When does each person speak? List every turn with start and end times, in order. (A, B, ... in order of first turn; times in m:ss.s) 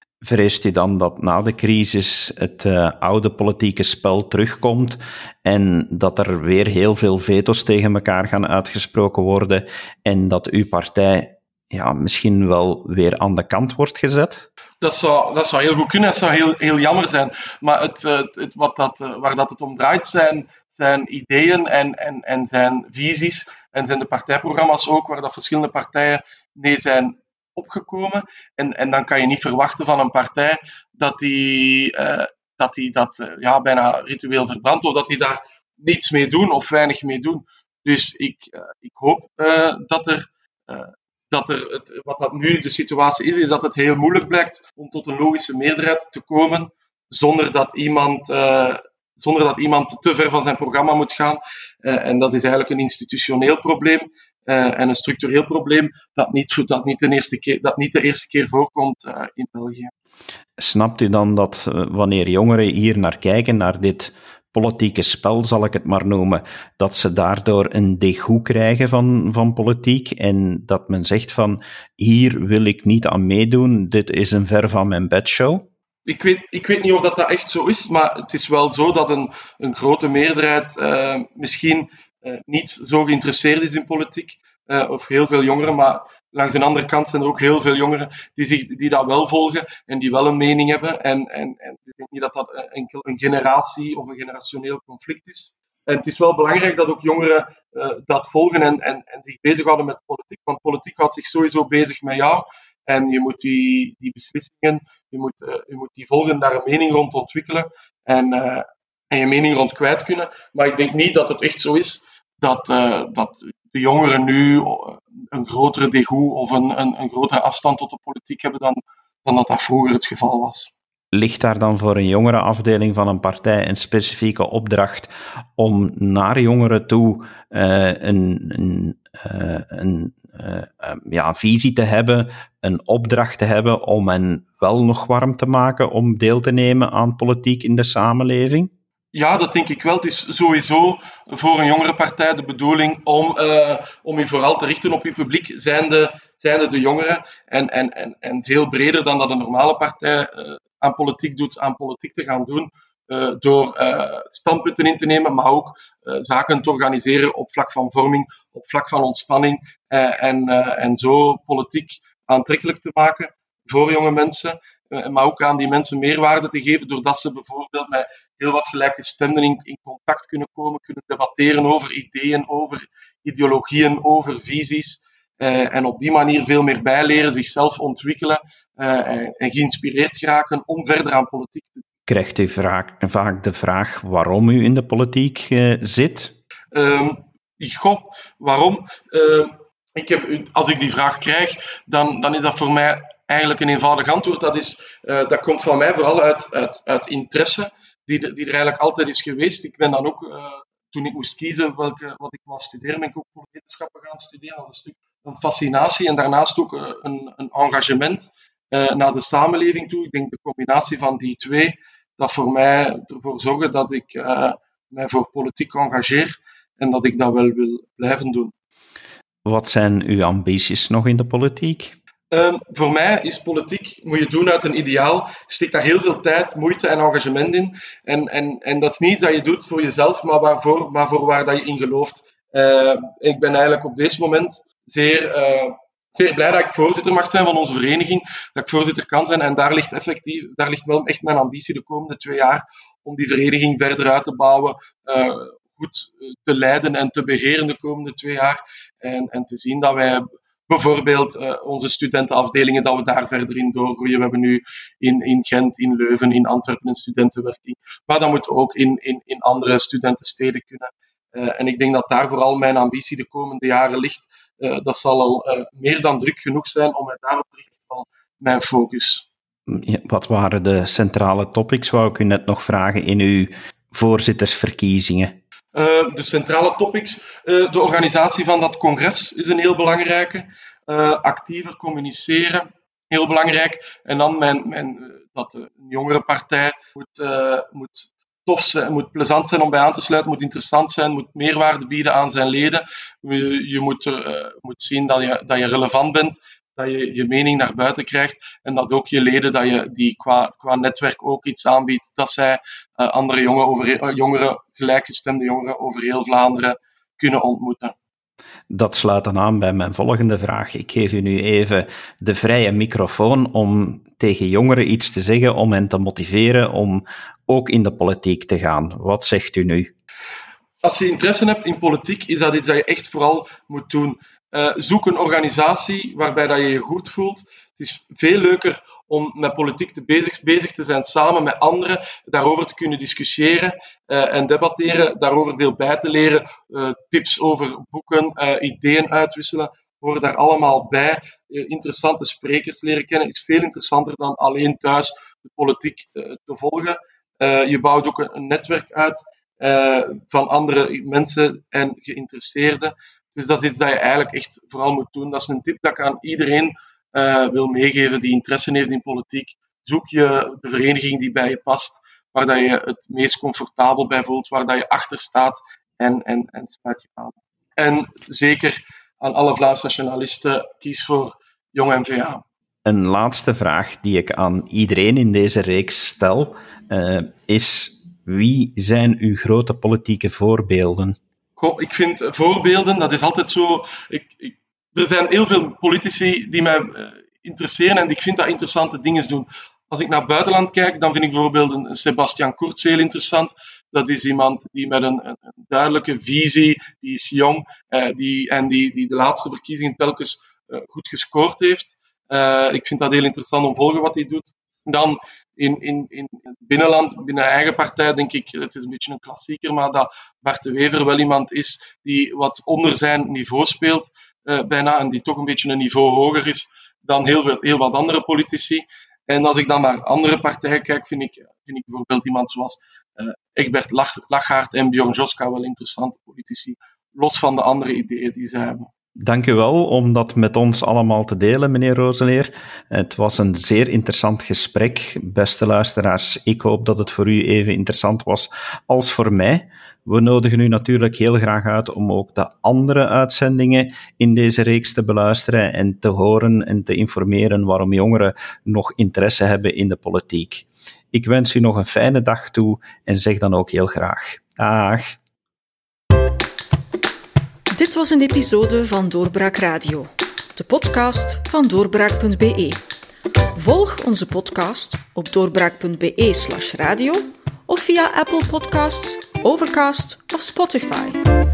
0:00.2-0:14.5 A
0:14.8-0:59.9 B
1:00.6-1:15.7 A
1:16.0-2:00.7 B
2:01.1-2:18.7 A
2:19.1-3:01.8 B
3:02.1-3:06.3 A
3:06.7-3:38.5 B
3:39.4-3:41.9 A
3:42.3-4:29.3 B
4:29.7-4:35.4 A
4:35.7-5:07.9 B
5:08.7-5:19.9 A
5:20.8-6:12.4 B
6:12.8-6:21.2 A
6:21.6-7:08.9 B
7:09.2-7:35.2 A
7:37.7-7:42.8 C
7:43.6-7:51.2 C